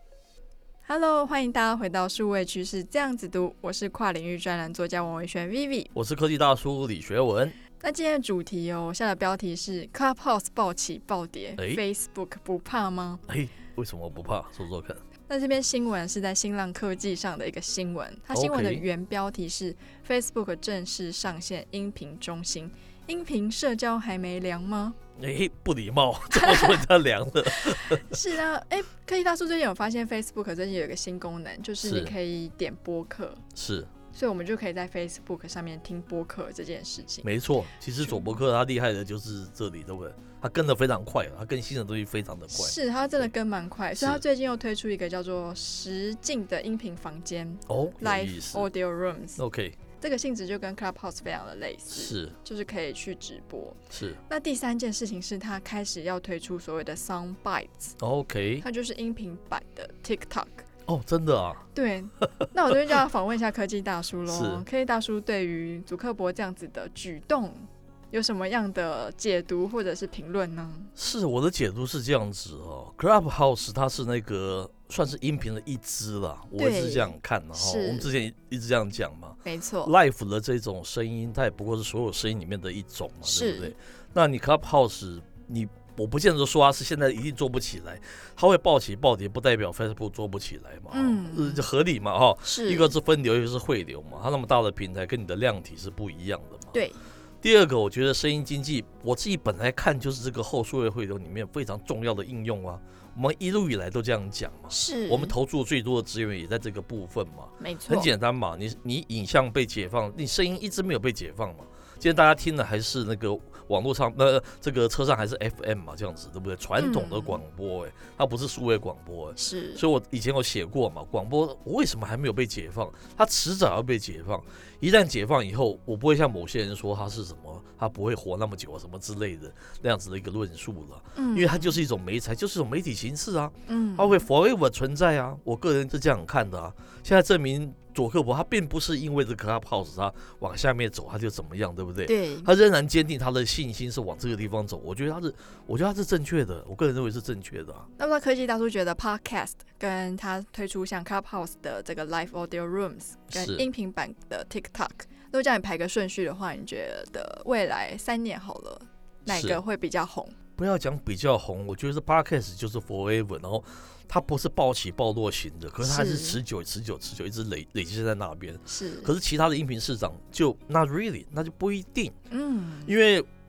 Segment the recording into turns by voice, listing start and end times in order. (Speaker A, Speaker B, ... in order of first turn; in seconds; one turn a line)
Speaker A: 0.8-5.9
Speaker B: 5.9-7.6
Speaker A: 7.8-13.2
Speaker B: 11.6-11.8
Speaker B: 13.3-15.0
Speaker A: 15.3-24.9
Speaker B: 18.3-18.9
Speaker B: 25.2-28.2
Speaker A: 26.3-26.8
Speaker A: 27.6-33.4
Speaker B: 31.8-32.1
Speaker B: 33.5-33.9
Speaker A: 34.1-37.3
Speaker B: 37.2-43.3
Speaker A: 38.0-38.3
Speaker A: 42.5-49.4
Speaker B: 44.0-44.2
Speaker B: 47.7-48.6
Speaker B: 49.4-49.8
Speaker A: 50.0-58.0
Speaker B: 51.9-52.4
Speaker B: 53.9-54.2
Speaker B: 58.0-58.6
Speaker A: 58.6-60.7
Speaker B: 60.9-61.6
Speaker A: 61.7-70.9
Speaker B: 64.3-64.7
Speaker B: 71.0-96.8
Speaker A: 76.6-78.1
Speaker A: 79.4-79.9
Speaker A: 83.2-83.7
Speaker A: 90.9-91.7
Speaker A: 92.4-92.9
Speaker A: 96.7-97.0
Speaker B: 97.4-147.9
Speaker A: 104.7-105.3
Speaker A: 107.6-108.1
Speaker A: 116.8-117.4
Speaker A: 119.3-119.8
Speaker A: 131.2-131.8
Speaker A: 133.7-134.2
Speaker A: 142.1-142.5
Speaker A: 148.0-160.3
Speaker B: 153.3-153.6
Speaker B: 159.3-159.6
Speaker B: 160.6-172.2
Speaker A: 165.8-166.4
Speaker A: 168.7-169.1
Speaker A: 172.3-172.9
Speaker B: 172.8-173.3